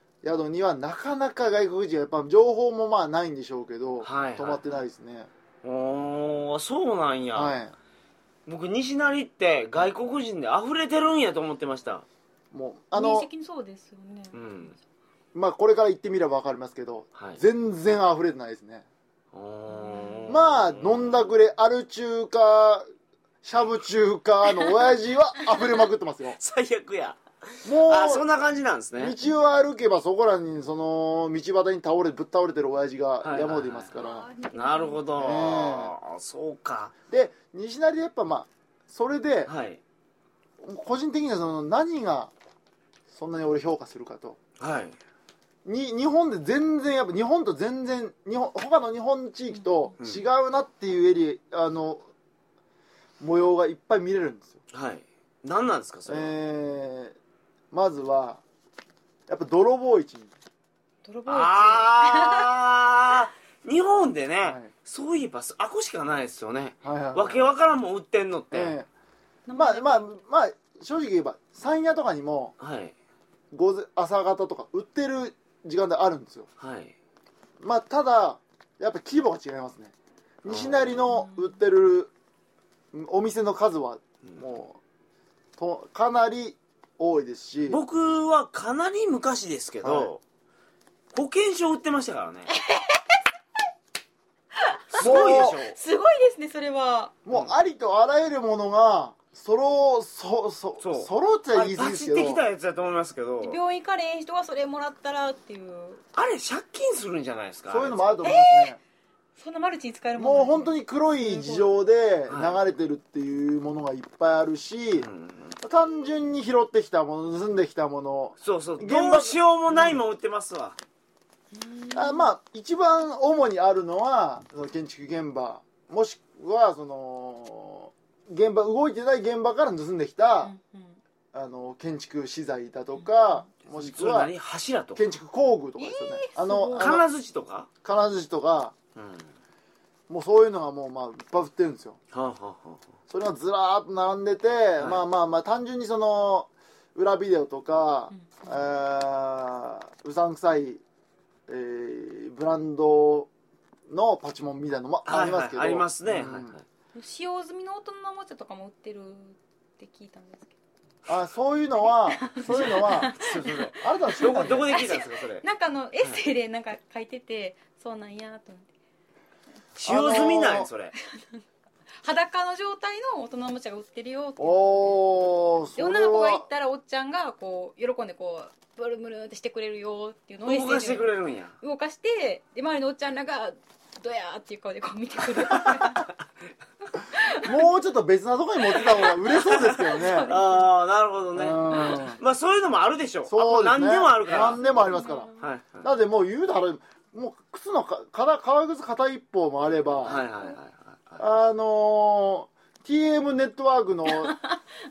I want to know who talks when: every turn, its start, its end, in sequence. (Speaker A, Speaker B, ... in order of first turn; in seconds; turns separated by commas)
Speaker A: 0.2-5.3, Speaker B: 4.0-4.8, Speaker B: 5.6-7.6, Speaker A: 7.3-7.7, Speaker B: 8.4-12.0, Speaker A: 12.5-13.3, Speaker C: 12.9-14.4, Speaker B: 14.3-14.7, Speaker A: 15.3-18.8, Speaker B: 19.3-21.2, Speaker C: 19.7-20.3, Speaker A: 20.3-22.9, Speaker A: 23.4-26.4, Speaker B: 26.4-29.2, Speaker A: 27.6-28.3, Speaker A: 28.9-34.3, Speaker B: 33.2-36.9, Speaker C: 34.0-35.0, Speaker A: 35.1-35.9, Speaker A: 37.1-39.5, Speaker B: 39.5-39.8, Speaker A: 40.6-42.3, Speaker A: 43.1-44.4, Speaker B: 44.6-45.0, Speaker A: 45.6-52.0, Speaker C: 49.5-49.9, Speaker A: 53.2-54.6, Speaker B: 54.7-56.3, Speaker A: 56.1-57.1, Speaker A: 57.7-58.4, Speaker A: 59.3-60.3, Speaker C: 61.0-62.5, Speaker B: 61.2-68.8, Speaker A: 64.4-64.7, Speaker A: 66.8-67.5, Speaker A: 68.5-68.9, Speaker C: 69.5-70.1, Speaker A: 69.5-72.5, Speaker B: 72.6-72.9, Speaker A: 73.5-76.5, Speaker B: 76.6-76.9, Speaker A: 77.6-82.1, Speaker B: 80.5-81.0, Speaker C: 81.1-81.5, Speaker A: 82.9-84.8, Speaker A: 85.6-87.8, Speaker B: 87.7-90.2, Speaker A: 89.8-90.1, Speaker B: 91.1-92.5, Speaker C: 92.7-93.0, Speaker B: 94.9-95.8, Speaker C: 94.9-97.2, Speaker A: 95.0-95.6, Speaker A: 97.2-102.4, Speaker B: 100.8-103.6, Speaker C: 103.4-106.0, Speaker B: 106.1-108.3, Speaker A: 107.7-108.8, Speaker C: 108.2-108.7, Speaker C: 109.4-111.7, Speaker A: 110.2-115.1, Speaker B: 112.3-112.6, Speaker B: 115.0-115.6, Speaker A: 115.6-120.0, Speaker B: 118.4-120.8, Speaker C: 121.5-122.3, Speaker A: 121.9-130.5, Speaker C: 130.4-131.0, Speaker A: 131.3-134.3, Speaker C: 133.0-133.4, Speaker B: 133.7-135.0, Speaker A: 134.9-137.0, Speaker C: 135.8-137.0, Speaker B: 136.8-137.7, Speaker A: 137.8-138.7, Speaker B: 138.9-139.3, Speaker A: 140.1-142.0, Speaker B: 142.1-142.8, Speaker A: 143.1-150.8, Speaker A: 151.5-153.3, Speaker A: 153.9-156.5, Speaker B: 155.1-156.6, Speaker C: 156.9-160.5, Speaker A: 161.1-165.0, Speaker C: 162.1-168.7, Speaker B: 162.5-165.4, Speaker B: 169.7-170.9, Speaker A: 169.8-170.7, Speaker C: 172.0-174.9, Speaker A: 174.4-176.4, Speaker C: 175.8-186.1, Speaker B: 180.4-181.5, Speaker B: 185.6-185.8, Speaker C: 186.9-187.6, Speaker A: 187.4-190.3, Speaker C: 188.8-190.7, Speaker B: 189.5-194.6, Speaker A: 191.3-192.2, Speaker A: 193.3-195.3, Speaker C: 194.3-195.4, Speaker B: 195.4-195.9, Speaker A: 195.8-200.2, Speaker B: 200.0-201.2, Speaker A: 201.2-204.4